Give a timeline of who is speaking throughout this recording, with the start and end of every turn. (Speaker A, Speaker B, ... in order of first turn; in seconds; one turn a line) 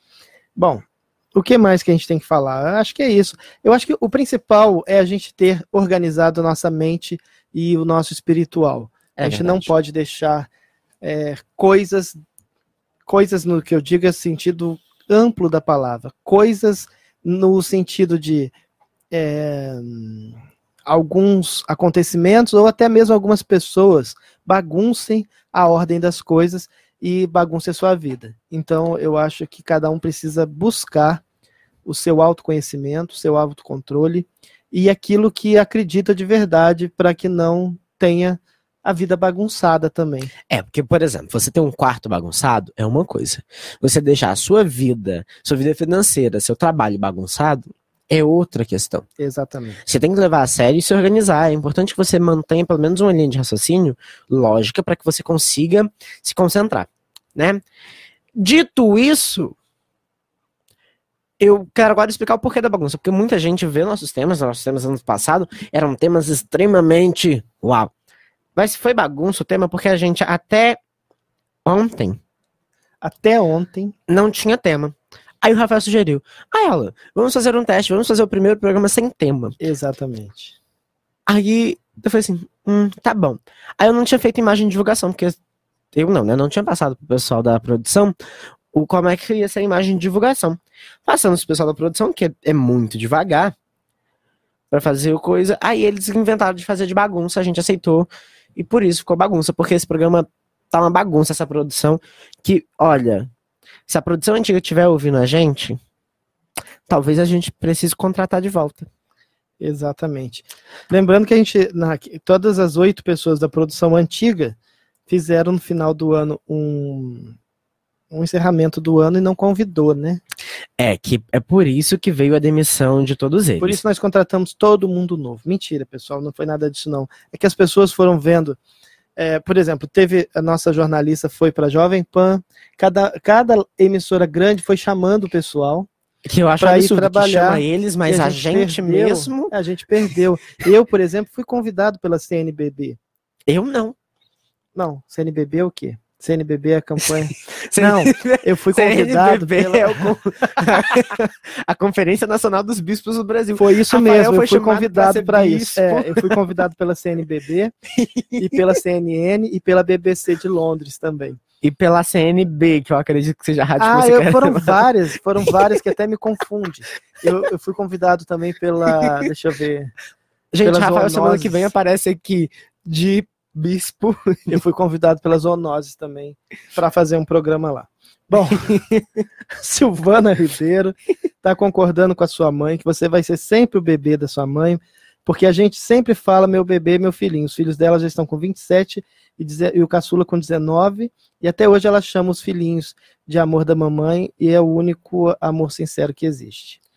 Speaker A: 0.6-10.5
Speaker B: 9.2-9.7
Speaker A: 11.0-12.2
Speaker A: 13.1-18.5
Speaker A: 19.1-20.4
Speaker A: 20.9-31.2
Speaker A: 31.9-40.3
Speaker B: 40.5-49.1
Speaker A: 49.2-49.8
Speaker B: 49.9-57.6
Speaker B: 58.4-59.5
Speaker B: 61.4-67.9
Speaker B: 68.6-70.8
Speaker B: 71.7-72.2
Speaker A: 73.0-73.9
Speaker B: 74.1-79.6
Speaker A: 79.6-80.6
Speaker B: 81.3-85.4
Speaker B: 85.9-88.2
Speaker B: 88.7-93.5
Speaker B: 94.7-103.3
Speaker B: 103.9-105.8
Speaker B: 106.9-108.9
Speaker A: 109.6-114.6
Speaker A: 115.1-117.4
Speaker A: 118.1-120.2
Speaker B: 120.8-123.8
Speaker A: 123.6-128.6
Speaker A: 129.2-135.9
Speaker B: 136.3-139.5
Speaker A: 136.6-143.0
Speaker B: 143.5-144.0
Speaker A: 144.8-150.1
Speaker B: 147.0-156.4
Speaker A: 153.6-157.7
Speaker B: 157.9-158.7
Speaker A: 158.4-161.4
Speaker B: 161.6-164.8
Speaker A: 163.8-169.9
Speaker B: 170.5-174.6
Speaker A: 170.6-171.7
Speaker A: 174.5-178.8
Speaker B: 178.7-179.0
Speaker A: 179.6-196.8